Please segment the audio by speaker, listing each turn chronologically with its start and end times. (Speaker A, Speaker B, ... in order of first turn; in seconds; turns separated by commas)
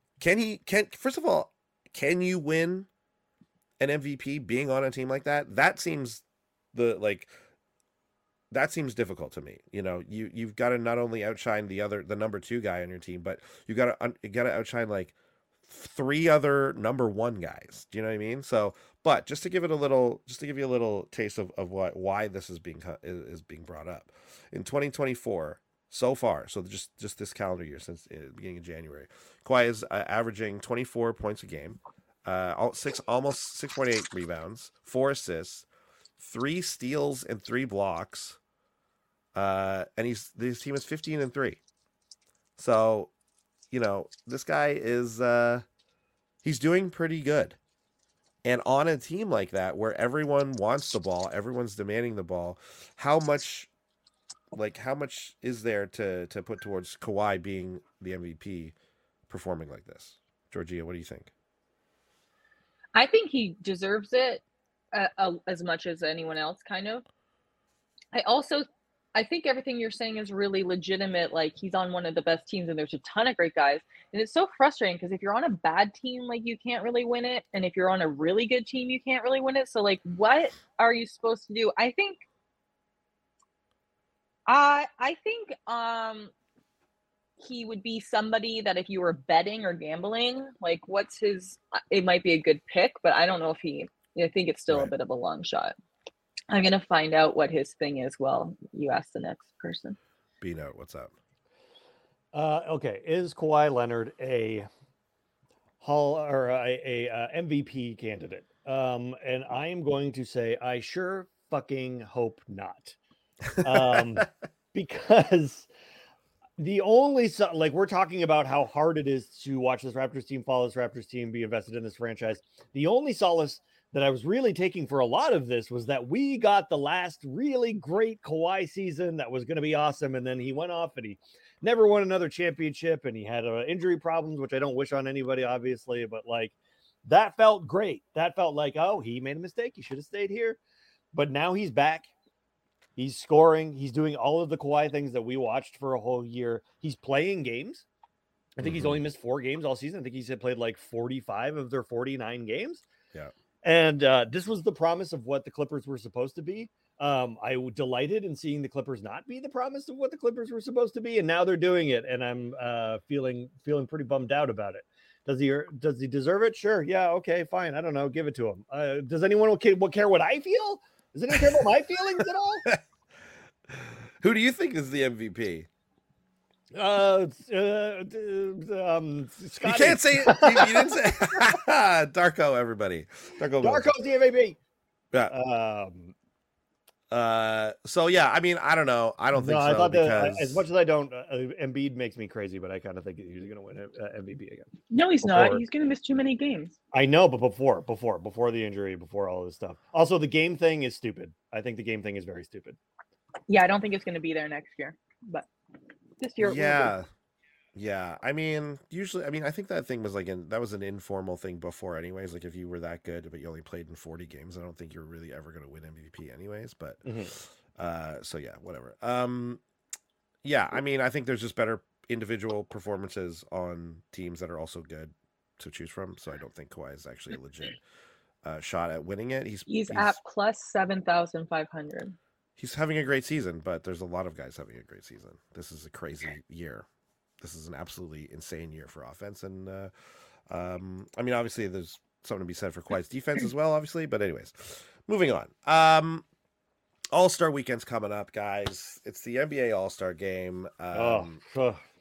Speaker A: 0.2-2.9, Speaker A: 3.8-7.3, Speaker A: 8.5-35.7, Speaker A: 36.2-38.4, Speaker A: 39.4-41.6, Speaker A: 42.6-43.1, Speaker A: 43.7-45.6, Speaker A: 46.4-47.6, Speaker A: 48.5-53.7, Speaker A: 54.5-58.8, Speaker A: 59.3-61.3, Speaker B: 63.0-67.0, Speaker B: 68.1-82.2, Speaker B: 84.5-86.3, Speaker B: 87.4-95.8, Speaker B: 96.5-100.0, Speaker A: 100.4-101.1, Speaker C: 102.3-104.7, Speaker C: 105.8-113.0, Speaker C: 113.5-115.7, Speaker C: 116.6-136.5, Speaker C: 137.1-140.6, Speaker C: 141.1-142.1, Speaker C: 143.0-147.9, Speaker C: 148.6-152.8, Speaker A: 148.6-149.0, Speaker C: 153.6-172.7, Speaker A: 173.7-175.7, Speaker C: 176.8-181.5, Speaker A: 179.6-183.9, Speaker C: 183.6-184.6, Speaker C: 185.3-186.1, Speaker A: 187.1-190.7, Speaker C: 189.3-194.7, Speaker B: 194.9-196.8, Speaker C: 195.2-195.6, Speaker C: 196.9-202.8, Speaker B: 203.5-205.5, Speaker B: 206.2-206.9, Speaker A: 206.4-207.1, Speaker A: 207.8-219.6, Speaker C: 217.1-217.3, Speaker A: 220.4-227.8, Speaker A: 228.4-230.2, Speaker B: 229.7-232.2, Speaker A: 232.6-236.9, Speaker A: 237.4-239.9, Speaker A: 240.5-246.2, Speaker A: 247.1-251.4, Speaker C: 250.9-251.8